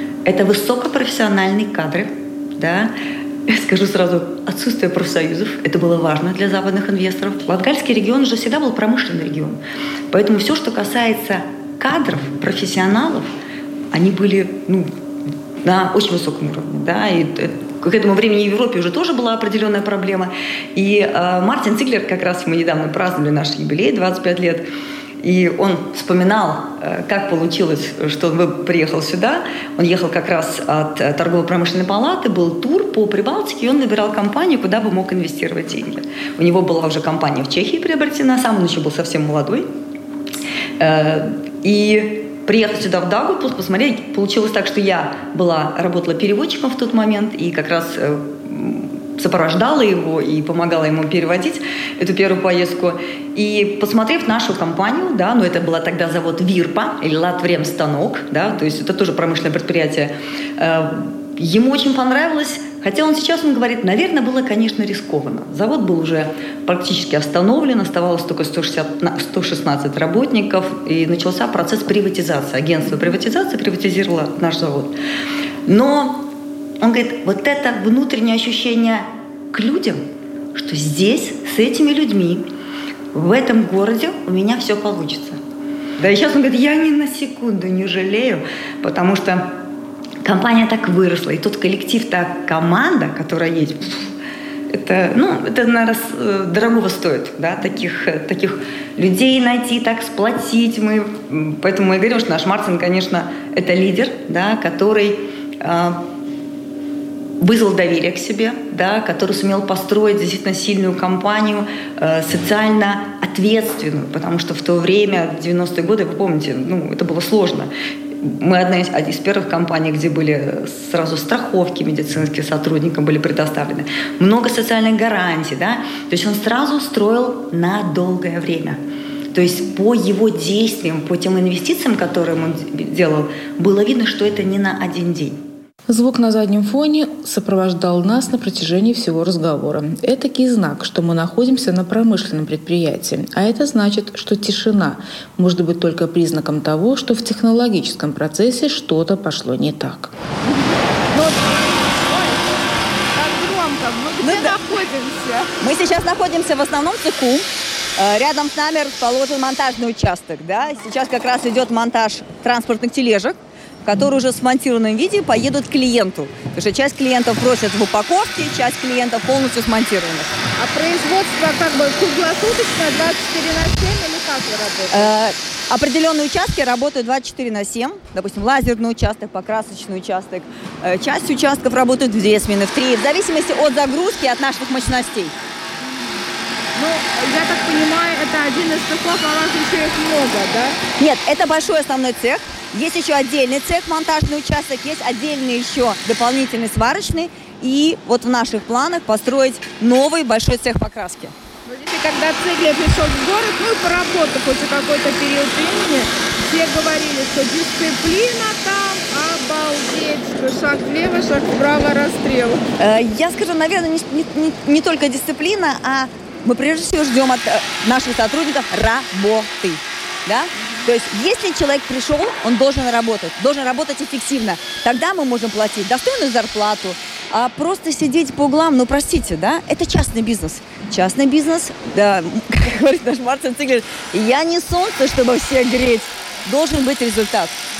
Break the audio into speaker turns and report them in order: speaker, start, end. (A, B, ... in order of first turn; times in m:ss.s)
0:00.2-0:02.9 A
0:03.5-0:09.6 A
0:10.1-0:13.3 A
0:13.9-0:14.9 A
0:15.6-0:24.6 A
0:25.2-0:39.7 A
0:40.8-1:14.9 A
1:15.7-1:16.2 A
1:16.8-1:20.0 A
1:20.5-1:22.4 A
1:23.1-1:25.4 A
1:26.0-1:29.5 A
1:30.2-1:34.1 A
1:34.7-1:46.0 A
1:47.4-1:57.7 A
1:58.2-2:08.8 A
2:09.3-2:15.4 A
2:15.9-2:30.1 B
2:31.1-2:32.5 C
2:33.1-2:35.5 C
2:34.2-2:34.6 A
2:35.6-2:37.4 A
2:38.0-2:50.4 A
2:50.6-2:55.1 C
2:54.9-3:05.3 A
3:06.8-3:10.8 C
3:11.0-3:21.3 A
3:21.7-3:32.6 C
3:32.8-3:57.5 A